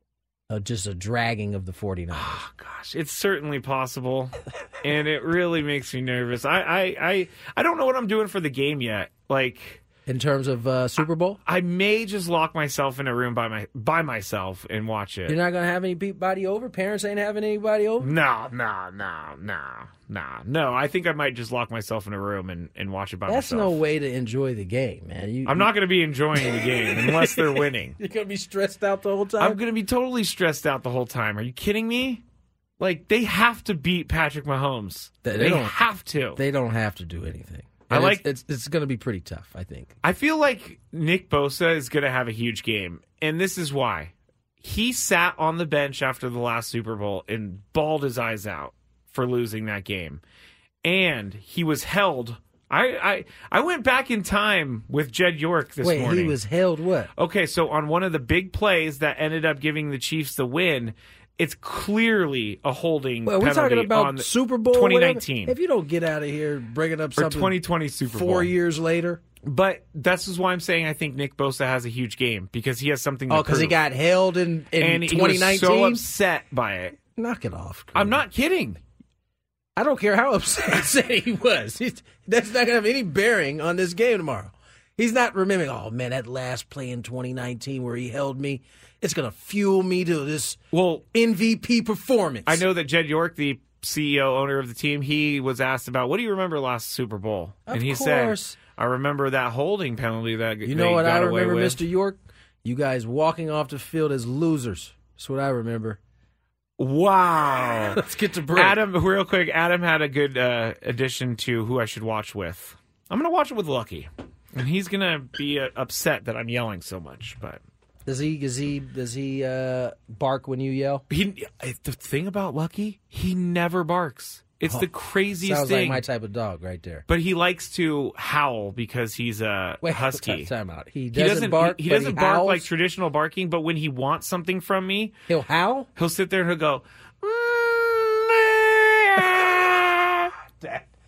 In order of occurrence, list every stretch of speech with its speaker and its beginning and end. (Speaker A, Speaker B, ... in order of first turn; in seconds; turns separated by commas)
Speaker A: 0.5-2.4, Speaker B: 2.1-9.8, Speaker A: 10.1-11.4, Speaker B: 11.4-15.4, Speaker A: 15.3-18.1, Speaker B: 18.0-23.8, Speaker A: 23.3-25.7, Speaker B: 25.4-27.9, Speaker A: 26.3-29.6, Speaker B: 29.4-32.2, Speaker B: 32.8-36.4, Speaker A: 35.2-35.7, Speaker A: 36.3-39.9, Speaker B: 37.9-38.2, Speaker B: 40.0-50.2, Speaker B: 50.8-56.4, Speaker A: 55.8-57.1, Speaker B: 57.1-65.5, Speaker A: 63.2-67.5, Speaker B: 67.2-68.5, Speaker A: 68.1-69.2, Speaker B: 69.4-73.8, Speaker A: 73.3-76.0, Speaker B: 74.8-77.0, Speaker A: 77.1-78.2, Speaker B: 77.9-78.8, Speaker A: 79.8-90.6, Speaker B: 90.7-91.0, Speaker A: 91.1-92.6, Speaker B: 92.5-101.8, Speaker A: 97.7-98.6, Speaker A: 100.6-106.0, Speaker B: 106.8-117.6, Speaker A: 107.9-108.8, Speaker A: 118.0-121.0, Speaker B: 121.1-126.0, Speaker A: 125.4-127.0, Speaker B: 127.1-130.5, Speaker A: 129.8-132.7, Speaker B: 131.1-135.1, Speaker A: 135.3-135.9, Speaker B: 136.0-140.3